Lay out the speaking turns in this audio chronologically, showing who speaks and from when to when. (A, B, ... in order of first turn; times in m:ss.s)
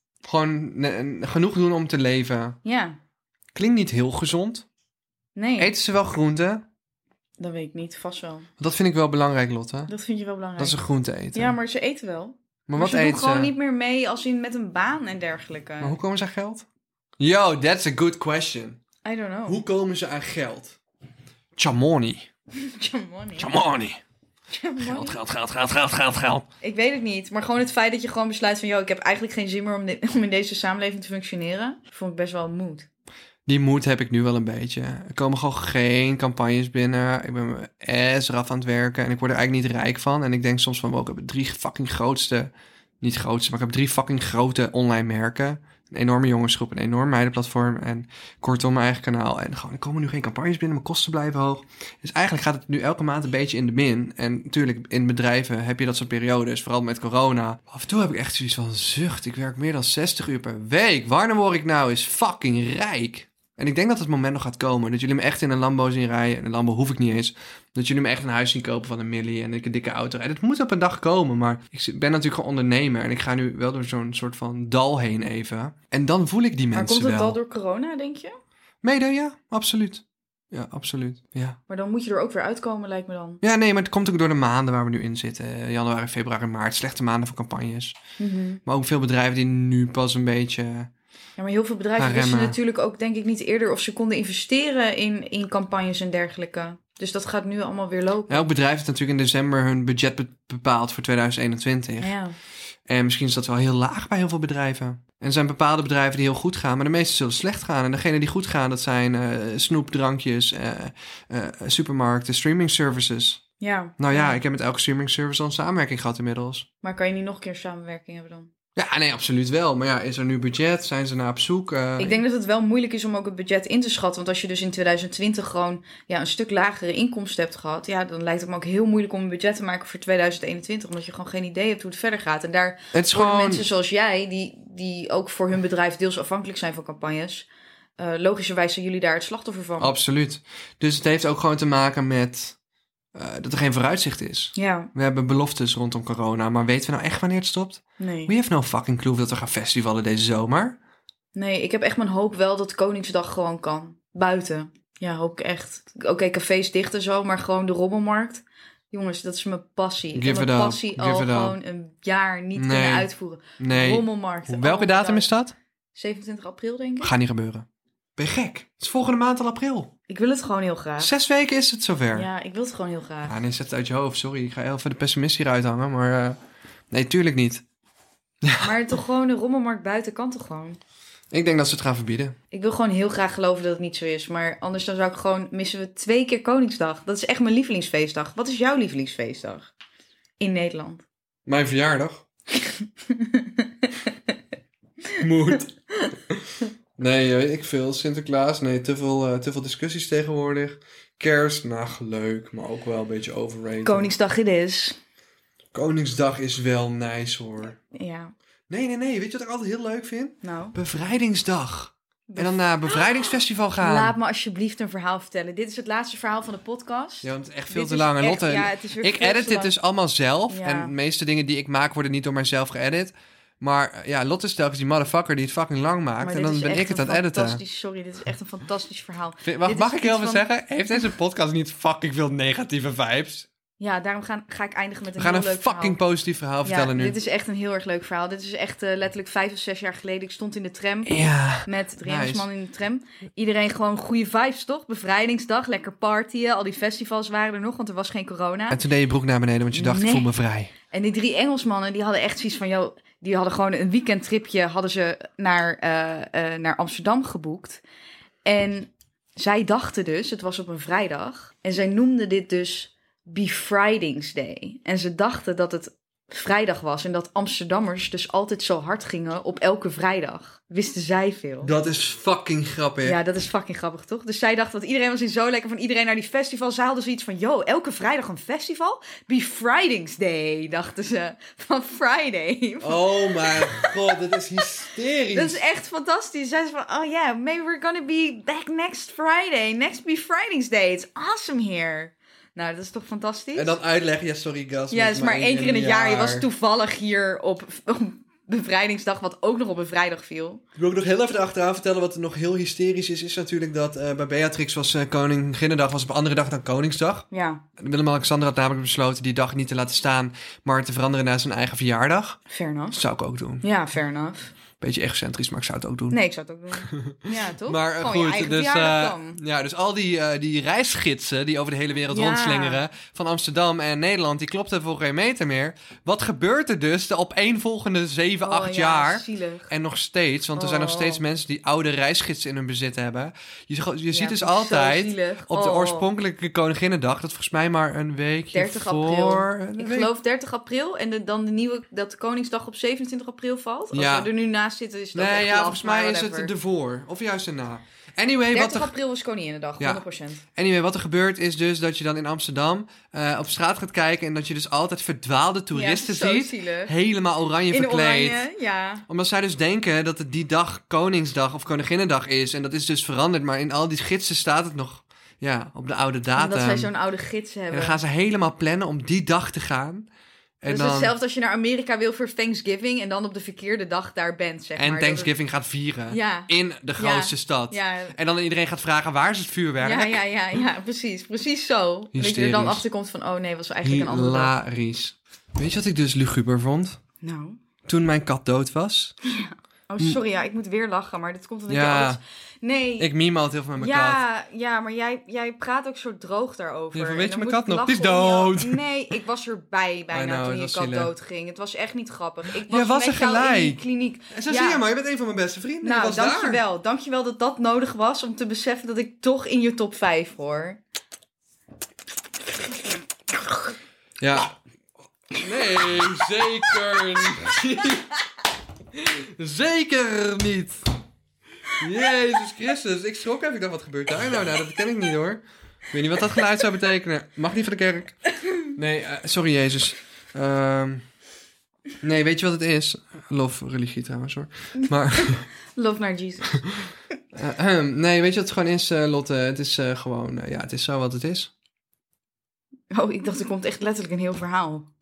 0:00.2-0:02.6 A
0:02.6-0:03.0 B
0:03.6-0:04.6 A
0:05.4-0:05.7 B
0:05.6-0:06.6 A
0:07.4-0:08.5 B
0:08.6-0:09.9 A
0:09.9-0:10.8 B
0:10.6-0:11.6 A
0:11.3-0:16.0 B
0:12.7-0:13.5 A
0:15.8-0:16.6 A
0:17.2-0:18.8 A
0:19.0-0:19.6 B
0:19.5-0:20.8 A
0:21.6-0:22.3 A
0:22.5-0:23.6 B
0:23.4-0:24.0 A
0:24.5-0:25.2 B
0:24.8-0:26.5 A
0:26.6-0:32.9 B
0:33.5-1:17.4 A
1:16.7-1:18.4 B
1:18.8-1:21.6 A
1:21.7-1:23.4 B
1:23.4-1:28.0 A
1:28.2-1:28.6 B
1:28.6-1:30.9 A
1:31.4-1:38.5 B
1:32.0-1:32.6 A
1:38.3-1:42.2 A
1:42.0-1:42.4 B
1:42.9-1:53.4 A
1:53.6-1:54.4 B
1:54.0-1:56.7 A
1:56.8-1:58.5 B
1:58.8-2:02.2 A
2:02.0-2:20.0 B
2:12.9-2:13.6 A
2:19.8-2:22.6 A
2:23.1-2:30.8 A
2:24.6-2:24.9 B
2:28.0-2:28.3 B
2:31.4-2:45.3 B
2:40.1-2:41.6 A
2:42.6-2:45.6 A
2:46.0-2:47.1 B
2:47.0-2:47.6 A
2:48.2-2:49.9 A
2:50.1-2:51.1 B
2:51.0-2:52.3 A
2:52.1-2:53.4 B
2:53.2-2:56.4 A
2:56.9-2:57.6 A
2:58.4-2:58.8 A
2:58.6-3:00.8 B
3:01.3-3:02.4 A
3:02.5-3:09.7 B
3:10.4-3:11.1 B
3:11.5-3:12.3 A
3:12.6-3:14.1 B
3:15.2-3:15.7 A
3:15.2-3:15.6 B
3:16.3-3:24.1 A
3:23.8-3:25.0 B
3:25.7-3:27.8 A
3:27.9-3:28.3 B
3:28.7-3:34.2 A
3:30.4-3:30.8 B
3:32.3-3:33.1 B
3:33.8-3:39.7 B
3:37.2-3:47.6 A
3:40.5-3:40.9 B
3:46.2-3:50.4 B
3:49.4-3:53.5 A
3:53.8-3:56.0 B
3:55.2-3:57.2 A
3:56.6-4:08.8 B
4:01.0-4:02.5 A
4:08.7-4:10.7 A
4:09.7-4:10.3 B
4:10.9-4:17.8 B
4:18.4-4:31.7 B
4:31.6-4:33.2 A
4:33.0-4:44.2 B
4:42.8-4:45.6 A
4:45.3-4:53.8 B
4:53.6-4:56.5 A
4:54.9-5:00.6 B
5:00.8-5:07.3 A
5:07.3-5:07.6 B
5:07.8-5:13.6 A
5:12.5-5:13.0 B
5:13.6-5:14.5 B
5:14.8-5:16.2 A
5:16.1-5:19.4 B
5:16.8-5:40.1 A
5:22.1-5:22.8 B
5:28.4-5:29.7 B
5:30.6-5:31.2 B
5:34.1-5:36.1 B
5:38.5-5:46.5 B
5:43.9-5:44.3 A
5:45.1-5:48.9 A
5:48.5-5:50.4 B
5:49.8-5:58.4 A
5:55.7-5:56.9 B
5:57.7-5:59.1 B
5:59.1-6:06.9 A
6:06.4-6:08.0 B
6:07.7-6:10.1 A
6:10.6-6:11.1 A
6:10.6-6:15.3 B
6:14.8-6:20.2 A
6:16.1-6:18.2 B
6:19.8-6:24.5 B
6:22.1-6:22.8 A
6:23.8-6:27.0 A
6:27.2-6:27.6 B
6:27.9-6:29.1 A
6:29.2-6:33.1 B
6:31.7-6:32.2 A
6:33.0-6:34.2 A
6:33.8-6:44.8 B
6:36.9-6:38.8 A
6:40.1-6:41.1 A
6:42.7-6:46.6 A
6:45.8-6:50.8 B
6:54.2-6:54.6 A
6:55.3-6:58.2 A
6:58.9-7:00.8 A
7:01.7-7:08.2 A
7:08.7-7:11.0 A
7:12.0-7:15.5 A
7:14.8-7:16.6 B
7:17.3-7:21.5 A
7:22.9-7:24.9 B